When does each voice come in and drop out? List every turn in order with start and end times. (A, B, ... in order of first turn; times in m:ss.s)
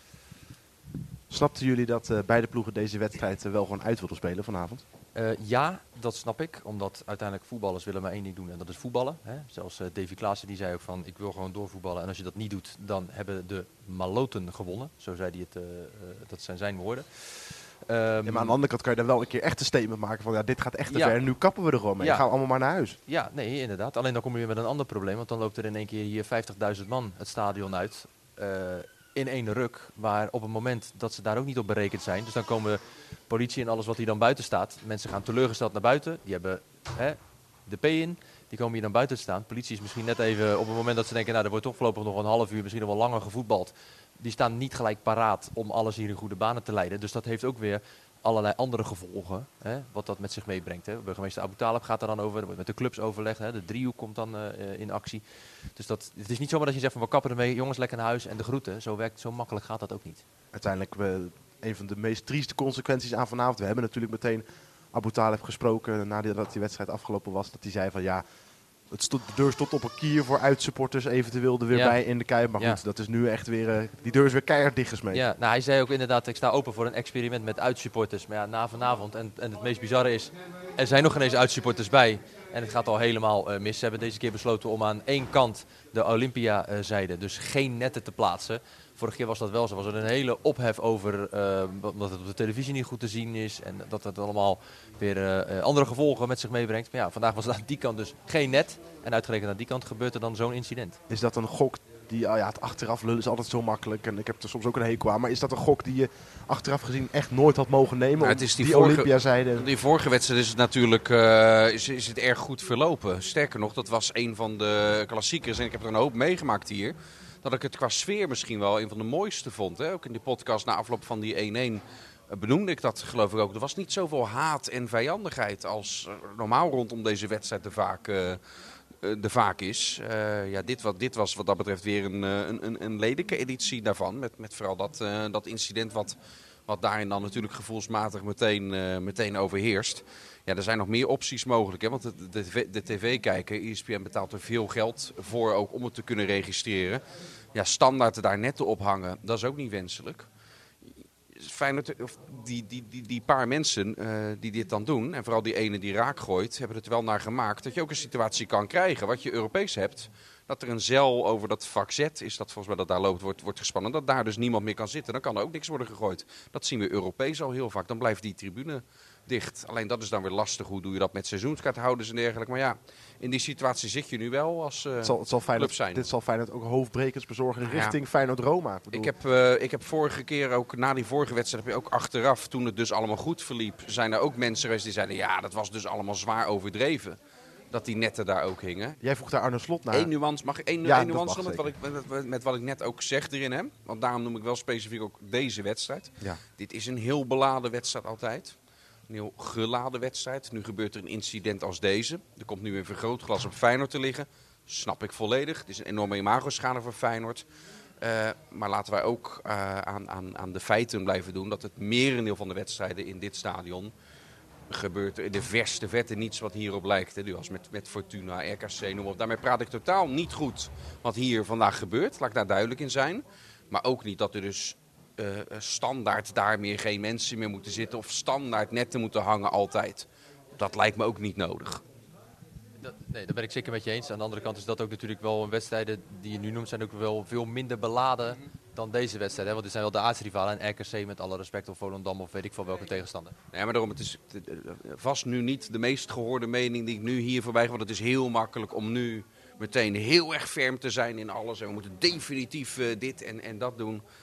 0:01.3-0:04.8 A
0:05.1-0:18.6 B
0:18.2-0:23.0 A
0:20.9-0:21.2 B
0:22.0-0:22.2 B
0:23.0-1:00.2 B
1:00.5-1:08.2 A
1:08.9-1:15.2 A
1:11.7-1:12.0 B
1:15.1-1:41.0 B
1:41.1-1:49.7 A
1:48.2-2:08.4 C
2:09.0-2:16.2 C
2:16.7-2:27.0 C
2:27.5-2:30.3 C
2:30.8-2:56.1 C
2:55.0-2:59.1 A
2:57.6-2:58.0 C
2:58.9-3:07.2 C
3:07.7-3:09.0 C
3:09.0-3:10.1 A
3:09.9-3:18.6 C
3:10.8-3:11.7 A
3:19.1-3:27.4 C
3:28.0-3:33.9 C
3:34.7-3:51.8 C
3:52.8-4:03.3 B
4:03.5-4:14.0 C